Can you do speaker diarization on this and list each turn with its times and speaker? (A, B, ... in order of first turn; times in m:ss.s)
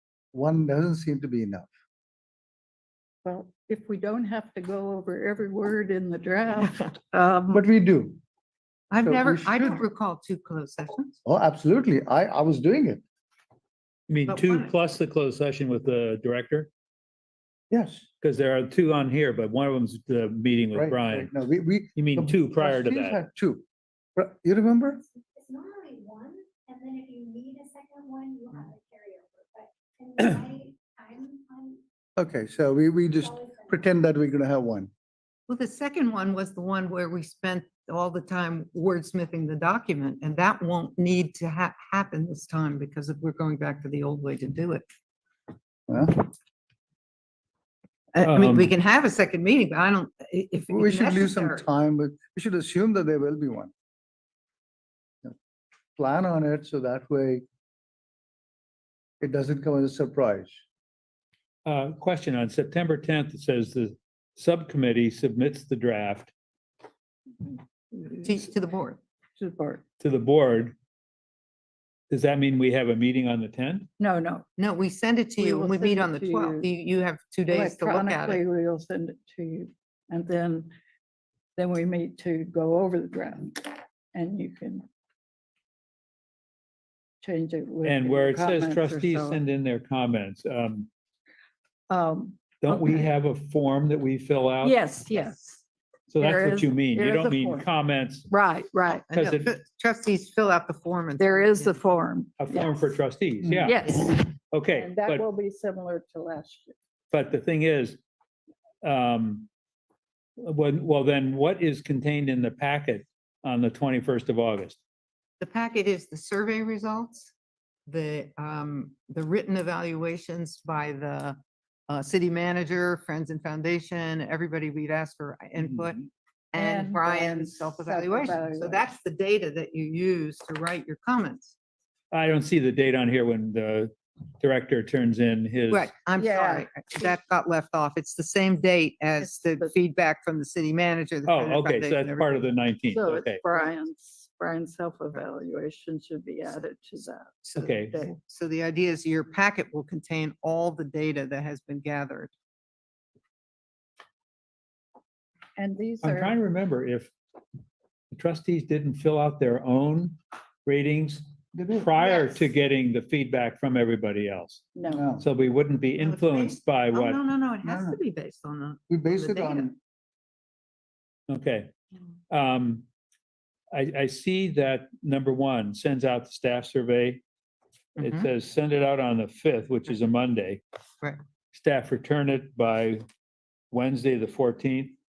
0:00.3-0:01.7 A
0:03.2-0:07.6 B
0:07.5-0:08.2 A
0:08.9-0:11.2 C
0:09.0-0:09.8 A
0:11.2-0:13.0 A
0:14.1-0:16.7 D
0:14.2-0:14.7 C
0:17.7-0:18.0 A
0:18.2-0:21.3 D
0:20.7-0:23.6 A
0:22.0-0:23.2 D
0:24.2-0:25.0 A
0:25.3-0:31.8 E
0:32.2-0:34.9 A
0:35.5-0:44.8 C
0:45.9-0:46.2 A
0:48.1-0:51.6 C
0:48.2-0:48.7 D
0:50.7-0:53.7 A
0:56.0-0:57.4 A
0:59.2-1:00.5 A
1:01.6-1:06.3 D
1:08.0-1:09.0 C
1:09.4-1:09.8 B
1:10.0-1:10.7 D
1:12.1-1:13.9 D
1:14.0-1:14.4 B
1:14.6-1:18.4 C
1:15.4-1:16.7 B
1:17.5-1:20.7 B
1:21.6-1:24.8 B
1:27.2-1:29.4 B
1:27.8-1:30.9 D
1:31.9-1:33.1 B
1:32.6-1:34.8 D
1:34.6-1:35.6 B
1:36.1-1:38.3 D
1:36.2-1:37.7 B
1:38.3-1:39.0 B
1:39.0-1:41.7 C
1:39.1-1:39.5 D
1:41.2-1:42.7 B
1:42.4-1:43.7 D
1:43.6-1:46.8 B
1:44.5-1:45.2 D
1:47.1-1:48.0 D
1:48.8-1:49.5 D
1:50.4-1:54.8 D
1:55.4-1:57.3 C
1:57.9-2:01.4 C
2:01.9-2:11.5 C
2:06.5-2:08.8 B
2:12.1-2:15.9 D
2:15.7-2:22.4 C
2:16.2-2:16.8 B
2:19.2-2:19.7 B
2:21.2-2:23.4 D
2:22.9-2:28.1 B
2:27.4-2:32.3 C
2:27.6-2:28.0 D
2:35.6-2:36.4 B
2:36.0-2:37.1 D
2:38.1-2:41.2 D
2:41.5-2:42.0 A
2:41.8-2:44.7 D
2:44.7-2:45.0 B
2:44.9-2:45.2 A
2:45.2-2:47.2 D
2:46.0-2:49.7 C
2:47.6-2:48.0 A
2:48.9-2:49.8 A
2:51.3-2:51.7 D
2:52.3-2:52.8 D
2:53.7-2:57.2 D
2:58.0-2:58.3 C
2:58.0-3:00.6 D
3:01.5-3:03.0 D
3:03.7-3:05.0 D